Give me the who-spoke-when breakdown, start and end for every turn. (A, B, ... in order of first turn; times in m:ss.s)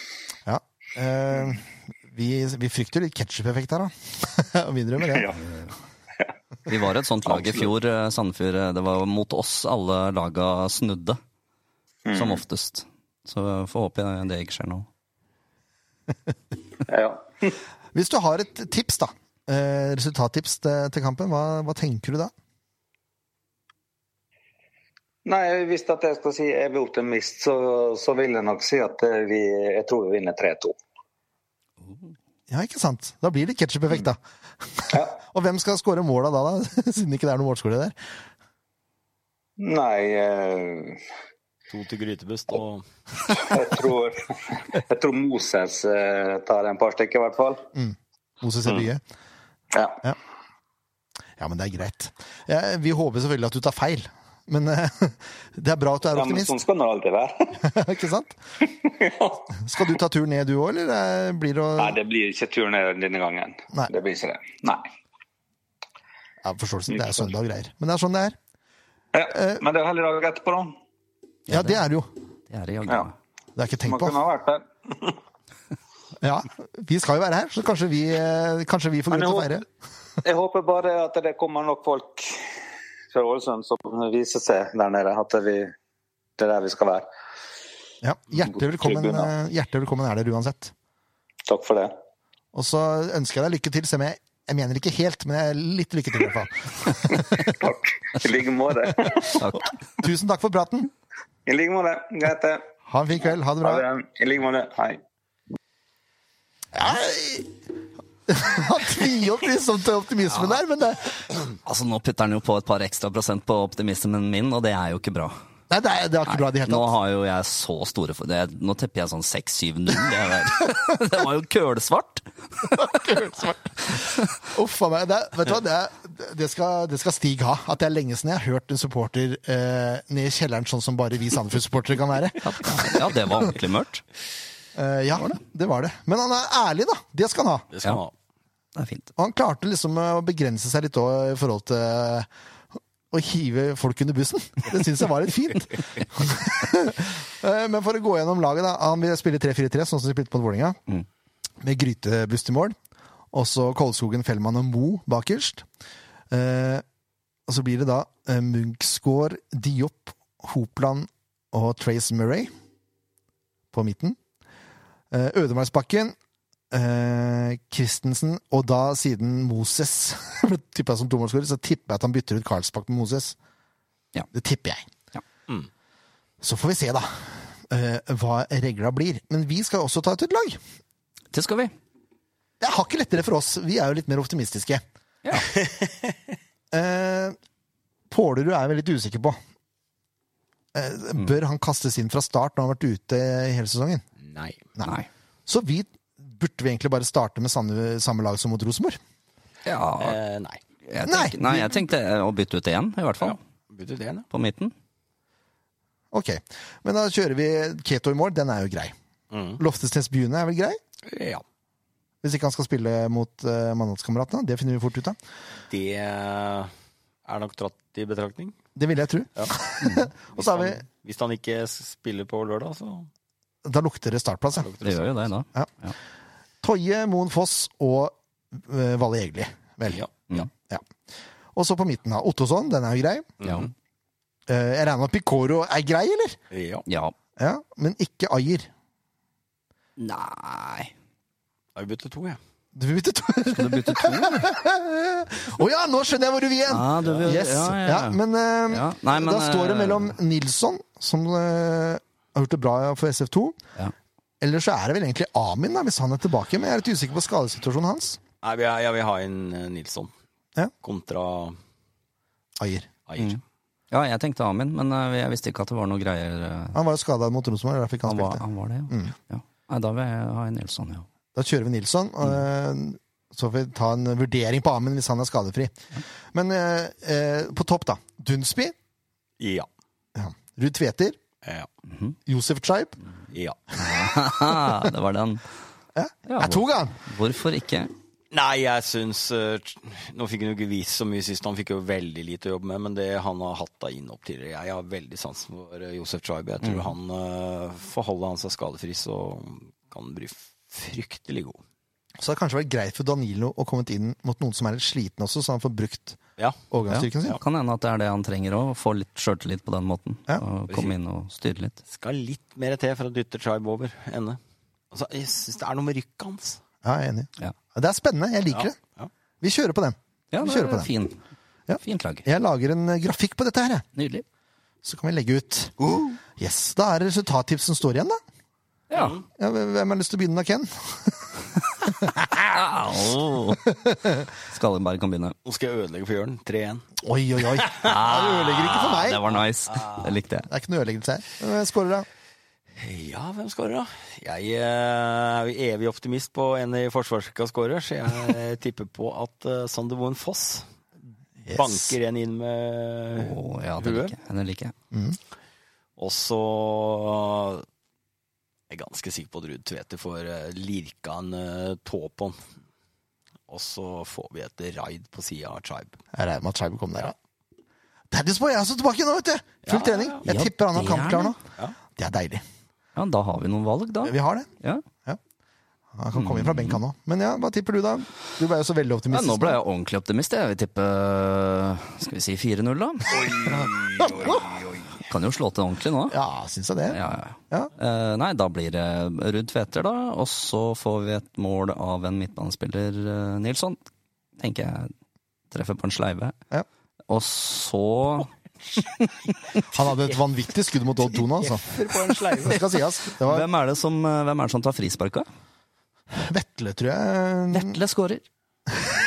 0:00.5-0:05.3 A
0:05.1-0:05.5 B
0:06.7-0:11.2 C
0:07.3-0:07.7 B
0:12.1-0:12.4 B
0:12.1-0:14.9 C
0:16.9-0:17.5 B
0:17.9-0:22.3 A
0:25.2-0:30.8 B
0:32.5-0:34.2 A
0:34.7-0:38.0 A
0:39.6-0:41.0 B
0:41.7-0:42.8 D
0:43.3-0:47.7 B
0:47.8-0:49.0 A
0:49.7-0:50.0 B
0:51.4-0:56.6 A
0:56.2-0:57.6 B
0:57.6-0:58.4 A
0:58.6-0:59.4 B
0:59.6-1:02.0 A
1:01.8-1:04.9 B
1:06.4-1:08.4 A
1:06.9-1:07.3 B
1:09.1-1:10.7 B
1:09.3-1:09.6 A
1:11.5-1:11.8 C
1:11.5-1:12.1 A
1:12.5-1:13.1 C
1:13.6-1:14.2 A
1:13.9-1:15.2 B
1:16.2-1:19.6 A
1:19.1-1:19.5 B
1:20.2-1:22.4 B
1:23.1-1:25.7 B
1:26.4-1:27.1 B
1:28.0-1:30.7 A
1:28.4-1:29.3 B
1:31.5-1:32.0 B
1:32.5-1:37.6 A
1:37.2-1:39.5 B
1:39.4-1:39.7 C
1:40.0-1:40.9 A
1:41.5-1:42.6 B
1:42.9-1:43.8 A
1:43.6-1:45.0 B
1:46.7-1:47.5 A
1:48.3-1:51.2 A
1:51.6-1:55.4 C
1:55.7-1:56.9 A
1:56.3-2:02.8 C
2:02.8-2:13.3 A
2:12.4-2:14.0 C
2:14.8-2:17.7 A
2:17.7-2:18.1 D
2:18.8-2:19.1 C
2:19.2-2:22.3 A
2:23.1-2:30.8 A
2:31.6-2:32.8 A
2:33.3-2:35.6 A
2:36.3-2:36.8 A
2:37.5-2:42.5 A
2:43.7-2:44.2 A
2:45.1-2:46.2 A
2:46.7-2:53.4 A
2:54.3-2:54.9 A
2:56.4-3:00.6 A
3:01.3-3:01.7 C
3:02.6-3:04.8 A
3:05.6-3:05.9 D
3:06.7-3:07.4 A
3:08.1-3:09.4 A
3:10.7-3:14.0 A
3:14.2-3:14.6 D
3:15.5-3:19.0 A
3:19.6-3:20.2 C
3:20.0-3:20.6 D
3:20.8-3:23.4 C
3:21.1-3:21.8 A
3:23.2-3:24.3 D
3:24.3-3:24.8 C
3:26.1-3:28.9 A
3:29.3-3:29.6 D
3:29.6-3:30.8 A
3:31.0-3:31.4 D
3:32.2-3:35.2 A
3:35.7-3:36.7 D
3:37.2-3:38.6 D
3:38.8-3:40.8 A
3:39.8-3:40.1 C
3:40.3-3:43.1 D
3:43.6-3:44.7 A
3:44.6-3:45.3 D
3:44.8-3:45.9 C
3:46.6-3:50.0 A
3:49.9-3:50.3 D
3:51.6-3:53.4 A
3:53.4-3:53.7 D
3:54.5-3:56.4 A
3:56.5-3:56.9 D
3:56.9-3:57.2 C
3:57.4-3:58.7 A
4:00.0-4:00.9 C
4:01.8-4:02.4 D
4:02.7-4:13.6 A
4:03.6-4:04.5 C
4:06.7-4:08.2 C
4:07.0-4:07.4 D
4:08.7-4:10.2 C
4:14.4-4:18.2 A
4:18.4-4:20.1 D
4:20.8-4:21.6 D
4:22.6-4:22.9 A
4:23.1-4:23.4 D
4:23.2-4:26.8 C
4:26.7-4:29.1 A
4:28.1-4:31.1 C
4:31.4-4:38.7 A
4:39.4-4:39.7 D
4:40.2-4:41.2 A
4:42.3-4:43.0 A
4:43.3-4:43.6 D
4:43.8-4:45.4 C
4:46.0-4:47.0 A
4:46.3-4:47.9 C
4:48.3-5:01.6 D
4:56.6-4:57.0 C
5:02.2-5:06.2 A
5:06.7-5:07.4 A
5:06.9-5:11.8 C
5:10.7-5:10.9 D
5:11.9-5:14.4 D
5:14.9-5:16.6 D
5:16.8-5:18.8 A
5:18.5-5:19.1 D
5:19.4-5:20.9 A
5:20.3-5:21.2 C
5:21.7-5:23.8 A
5:21.8-5:22.3 C
5:24.0-5:24.2 C
5:24.8-5:25.8 A
5:26.4-5:28.2 A
5:28.9-5:29.2 C
5:28.9-5:29.2 D
5:29.4-5:31.3 A
5:32.0-5:32.4 A
5:32.4-5:33.6 C
5:34.5-5:35.4 C
5:35.5-5:36.9 D
5:37.0-5:39.2 A
5:37.5-5:40.2 D
5:37.8-5:40.5 C
5:40.5-5:42.1 A
5:42.8-5:50.7 D
5:51.5-5:52.0 A
5:51.5-5:54.1 D
5:53.2-5:54.7 C
5:54.9-5:55.2 A
5:56.0-5:57.7 D
5:58.7-6:02.4 D
6:03.5-6:06.0 D
6:06.1-6:07.2 A
6:08.1-6:11.4 A
6:09.7-6:10.2 D
6:10.3-6:11.4 C
6:11.9-6:12.4 A
6:13.0-6:14.8 C
6:14.0-6:14.5 A
6:15.9-6:19.6 A
6:16.1-6:16.8 C
6:19.1-6:23.3 C
6:23.1-6:24.9 B
6:25.0-6:26.2 C
6:26.1-6:27.0 A
6:26.9-6:33.8 C
6:34.4-6:34.9 C
6:35.5-6:36.4 C
6:37.1-6:39.3 C
6:39.7-6:41.8 A
6:41.2-6:42.9 D
6:42.4-6:43.5 A
6:43.2-6:45.3 C
6:46.1-6:47.8 A
6:47.5-6:48.2 C